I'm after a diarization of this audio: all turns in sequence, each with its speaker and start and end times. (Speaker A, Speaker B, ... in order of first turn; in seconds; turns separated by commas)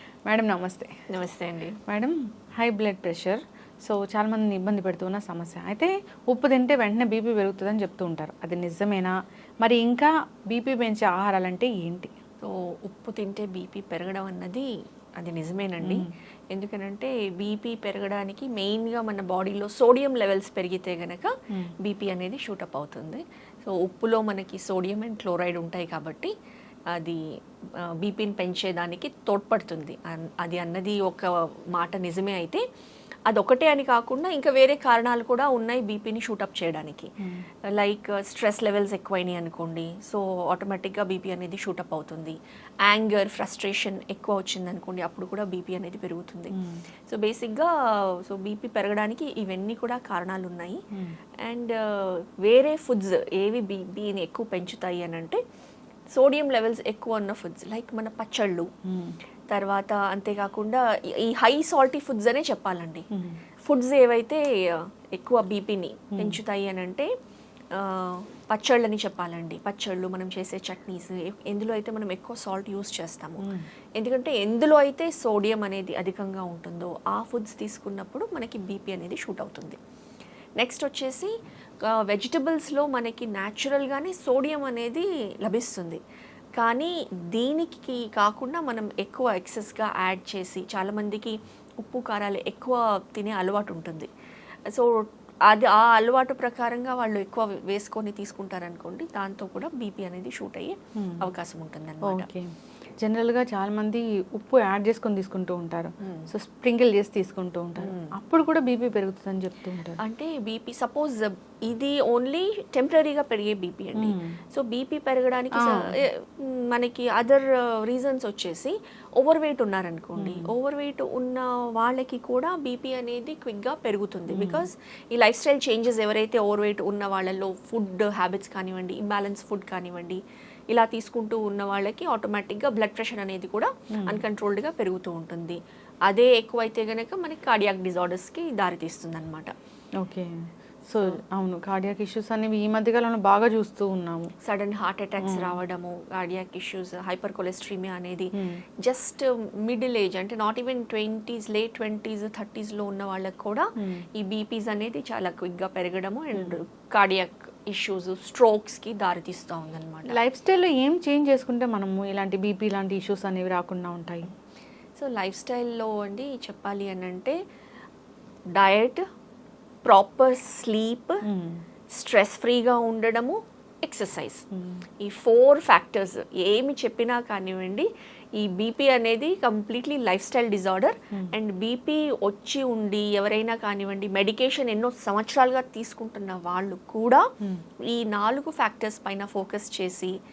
Speaker A: 0.3-0.9, Speaker B: 1.1-1.8, Speaker A: 1.9-12.1, Speaker B: 12.4-26.3, Speaker A: 15.8-16.1, Speaker B: 26.9-27.2, Speaker B: 27.8-32.6, Speaker B: 33.3-37.1, Speaker A: 37.2-37.5, Speaker B: 37.7-46.5, Speaker A: 46.5-46.8, Speaker B: 47.1-50.8, Speaker B: 51.5-55.4, Speaker B: 56.1-58.7, Speaker A: 58.9-59.2, Speaker B: 59.5-63.0, Speaker A: 63.1-63.4, Speaker B: 63.6-67.1, Speaker A: 66.1-66.4, Speaker B: 67.7-79.8, Speaker A: 73.4-73.7, Speaker B: 80.6-81.3, Speaker B: 81.8-86.0, Speaker B: 86.6-94.1, Speaker B: 94.7-102.3, Speaker A: 101.0-101.3, Speaker A: 102.0-110.0, Speaker B: 106.0-106.3, Speaker B: 107.8-108.1, Speaker B: 110.0-139.5, Speaker A: 114.0-114.4, Speaker A: 115.5-116.0, Speaker A: 120.2-120.5, Speaker A: 124.3-124.7, Speaker A: 133.9-134.2, Speaker A: 140.0-144.3, Speaker B: 144.4-148.3, Speaker A: 145.2-145.6, Speaker A: 148.3-148.6, Speaker B: 148.8-160.2, Speaker A: 153.8-154.1, Speaker A: 156.3-156.6, Speaker A: 160.1-164.3, Speaker B: 165.0-167.4, Speaker B: 168.6-169.0, Speaker B: 169.8-171.2, Speaker A: 171.2-171.6, Speaker B: 171.9-174.4, Speaker A: 174.5-174.8, Speaker B: 175.0-187.2, Speaker B: 187.8-190.2